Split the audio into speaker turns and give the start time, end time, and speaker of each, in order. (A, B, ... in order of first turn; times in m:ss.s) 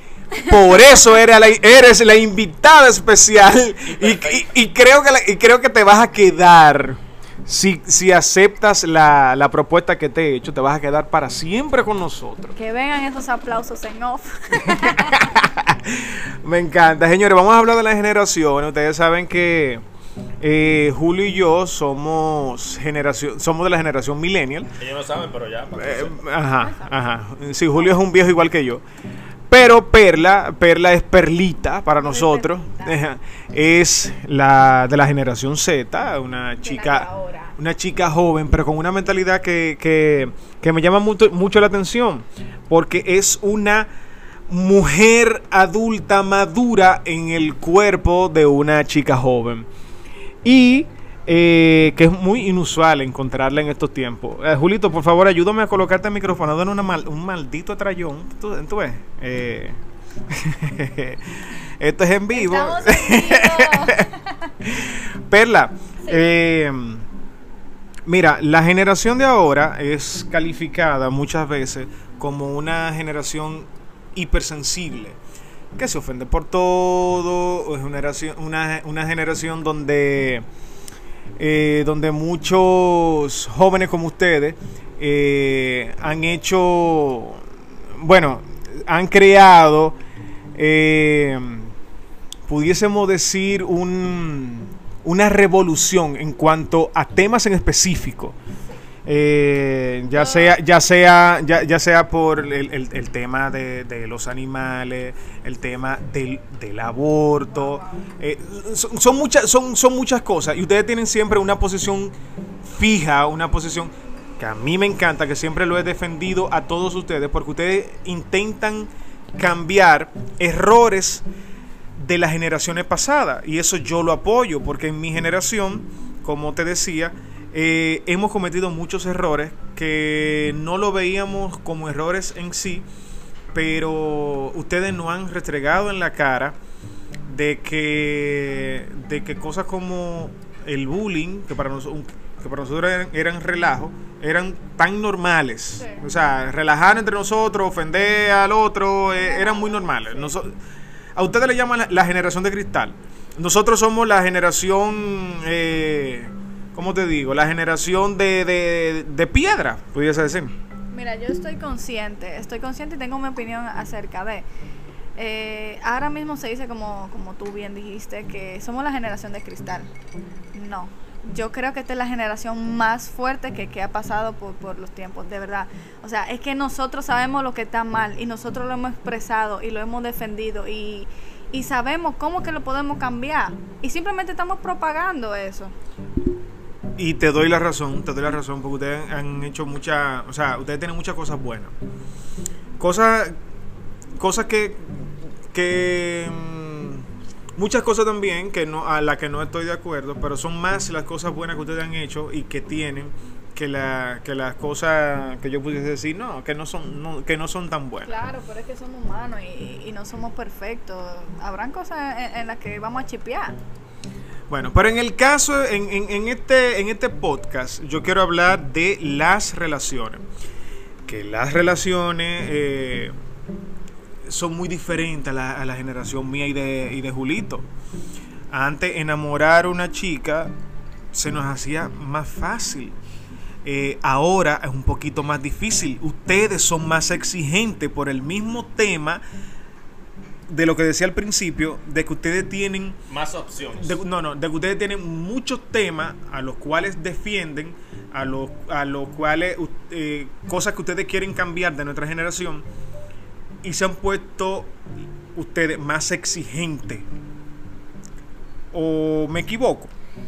0:00.4-0:12.6 A
0:03.9-0:04.4 B
0:12.6-0:15.3 C
0:14.6-0:19.8 A
0:20.4-0:24.7 A
0:24.8-0:26.2 B
0:25.8-0:28.8 A
0:26.6-0:27.0 C
0:27.7-0:28.0 C
0:29.5-0:43.9 A
0:32.0-0:33.0 C
0:36.6-0:37.6 C
0:44.5-0:49.7 A
0:50.4-0:59.8 A
1:00.3-1:04.1 A
1:02.3-1:04.5 C
1:04.6-1:07.1 A
1:08.1-1:15.2 A
1:15.8-1:20.5 A
1:21.4-1:27.5 A
1:28.0-1:30.0 A
1:30.6-1:31.7 A
1:32.5-1:38.4 A
1:39.1-2:01.2 A
1:40.1-1:40.6 C
1:47.5-1:48.1 C
2:02.0-2:12.9 A
2:13.5-2:16.6 A
2:17.3-2:30.6 A
2:29.2-2:30.4 C
2:31.2-2:40.6 A
2:40.9-2:44.5 C
2:45.2-2:49.9 C
2:50.5-3:05.7 C
3:07.0-3:11.7 A
3:12.8-3:13.4 A
3:14.2-3:28.2 A
3:28.0-3:33.6 C
3:34.5-3:40.2 A
3:41.1-3:43.1 A
3:44.3-3:47.7 A
3:48.5-3:50.5 A
3:51.1-3:53.0 A
3:53.6-3:59.2 A
4:00.5-4:03.0 A
4:03.1-4:04.0 B
4:03.8-4:12.6 A
4:13.6-4:14.8 A
4:15.3-4:17.1 A
4:18.7-4:19.9 A